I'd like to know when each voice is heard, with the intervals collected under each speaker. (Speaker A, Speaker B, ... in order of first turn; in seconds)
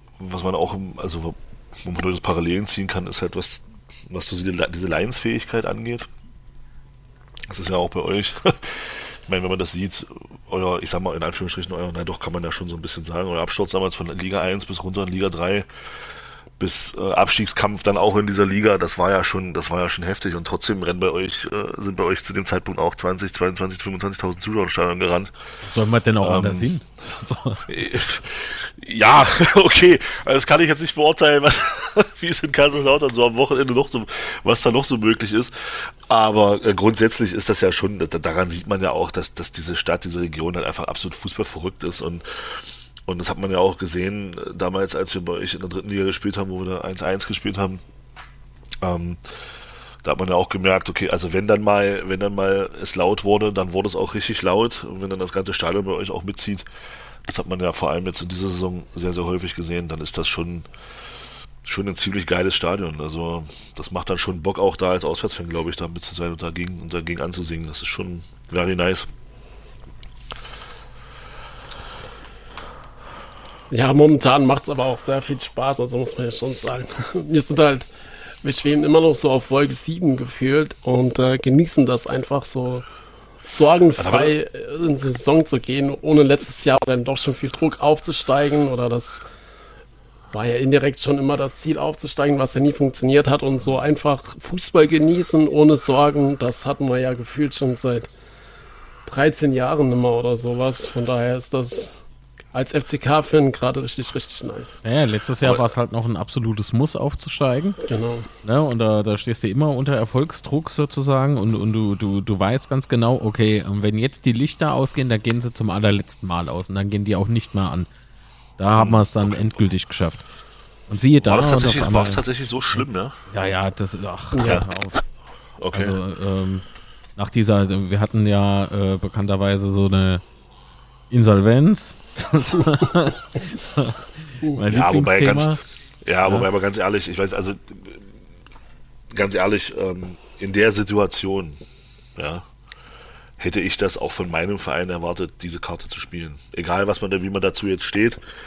Speaker A: 0.2-6.1, 7.5-15.7, 16.6-25.3, 26.2-26.7, 27.7-47.8, 48.8-49.2, 50.0-56.7, 57.3-60.7, 61.6-69.1, 84.0-84.3, 118.7-119.5, 121.2-123.2, 125.6-126.0, 134.7-138.1, 139.1-141.6, 142.2-142.5, 143.4-148.2
Speaker B: 25.6-27.6, 104.8-107.8, 108.4-117.9, 118.6-120.3, 120.9-122.2, 122.8-125.0, 125.7-126.7, 127.2-130.2, 131.1-135.6
Speaker C: 73.7-77.9, 78.4-82.8, 83.4-89.2, 90.3-98.1, 99.1-102.0, 102.5-104.8, 107.8-108.3, 124.3-124.6